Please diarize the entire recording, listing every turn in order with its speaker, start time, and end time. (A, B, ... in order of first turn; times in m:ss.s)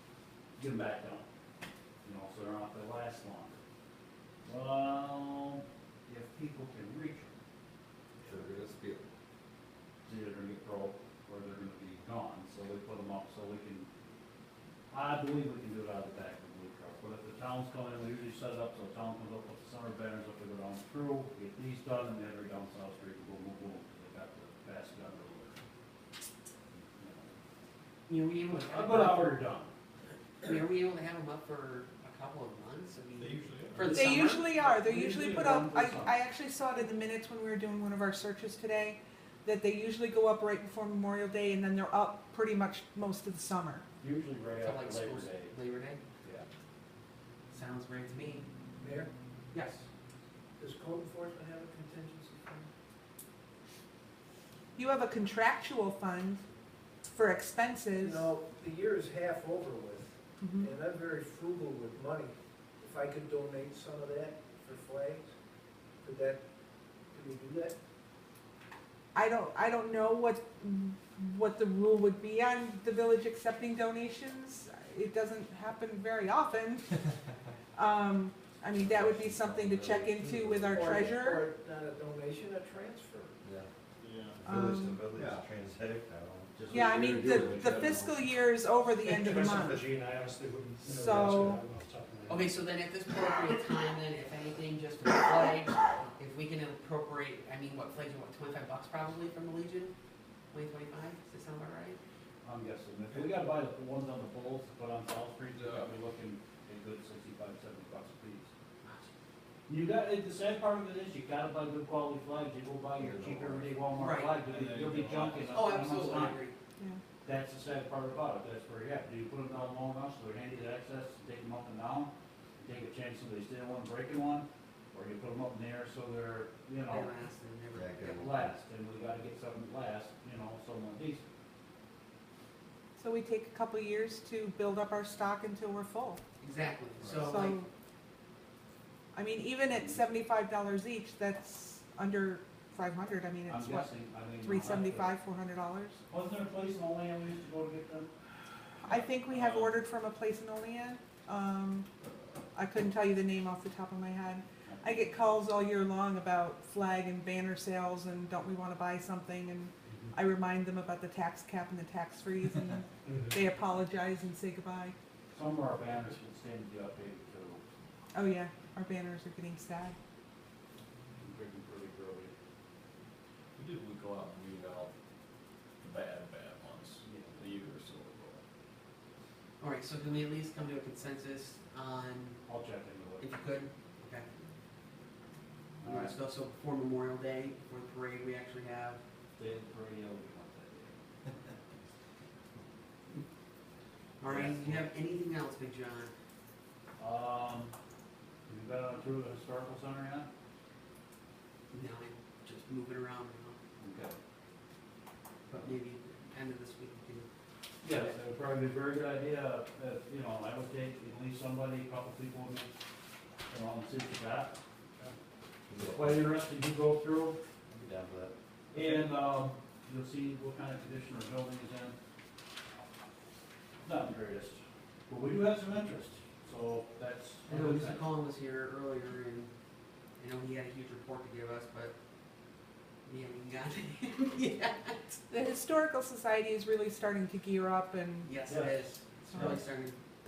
0:00.6-0:01.2 A
0:02.0-0:03.6 A
0:04.4-0:07.4 A
0:08.2-0:09.1 B
0:10.0-0:13.9 A
0:14.9-0:25.6 A
0:26.7-0:27.3 A
0:28.1-0:29.4 C
0:28.5-0:29.7 A
0:30.4-0:34.5 C
0:33.2-0:34.0 D
0:33.8-0:36.2 A
0:33.9-0:43.8 E
0:44.0-0:45.5 A
0:44.6-0:46.0 C
0:47.5-0:48.5 C
0:48.8-0:49.1 F
0:49.5-0:49.8 C
0:50.6-0:52.7 F
0:54.8-0:56.4 E
0:57.1-0:58.3 E
0:58.0-1:05.3 F
1:00.4-1:00.7 E
1:06.0-1:06.4 F
1:07.1-1:07.8 F
1:09.1-1:17.0 E
1:17.7-1:21.5 E
1:18.7-1:21.2 B
1:20.7-1:23.4 F
1:23.4-1:23.7 B
1:24.0-1:24.4 D
1:24.4-1:27.9 B
1:24.4-1:25.0 E
1:25.1-1:25.4 F
1:26.6-1:28.2 A
1:26.7-1:29.8 E
1:29.0-1:32.5 G
1:30.8-1:31.6 E
1:32.3-1:39.9 C
1:40.5-1:42.0 C
1:42.4-1:48.5 A
1:45.5-1:45.9 D
1:49.7-1:56.4 A
1:53.0-1:53.7 B
1:54.0-1:54.4 C
1:54.4-1:55.5 D
1:55.3-1:56.6 C
1:57.2-2:07.1 A
2:06.9-2:08.3 C
2:07.7-2:08.5 B
2:08.2-2:11.2 A
2:13.0-2:16.2 E
2:16.4-2:17.6 C
2:17.2-2:17.7 E
2:19.1-2:26.0 E
2:19.7-2:20.0 A
2:23.5-2:25.1 A
2:26.1-2:28.1 A
2:28.8-2:31.9 E
2:28.9-2:29.8 D
2:32.5-2:44.9 E
2:34.6-2:35.4 A
2:43.1-2:43.3 G
2:45.3-2:47.6 A
2:48.1-2:50.0 E
2:51.2-2:52.3 A
2:53.6-2:54.9 D
2:55.8-2:58.4 D
2:57.0-2:57.4 A
2:59.6-3:02.4 C
3:02.4-3:03.3 A
3:03.2-3:04.3 C
3:05.8-3:06.1 A
3:05.8-3:09.0 C
3:09.4-3:11.0 A
3:14.2-3:16.1 C
3:14.3-3:14.8 A
3:17.0-3:17.7 A
3:18.5-3:20.3 A
3:21.7-3:23.6 C
3:23.8-3:24.2 A
3:25.5-3:27.3 C
3:27.8-3:32.7 A
3:27.8-3:28.1 C
3:33.5-3:34.6 A
3:35.7-3:36.2 B
3:35.8-3:37.4 A
3:37.7-3:38.3 B
3:38.7-3:42.0 A
3:43.8-3:48.1 A
3:47.5-3:49.5 C
3:50.2-3:51.9 C
3:53.0-3:55.2 C
3:55.3-3:58.4 E
3:58.2-4:00.0 C
3:58.5-3:59.6 A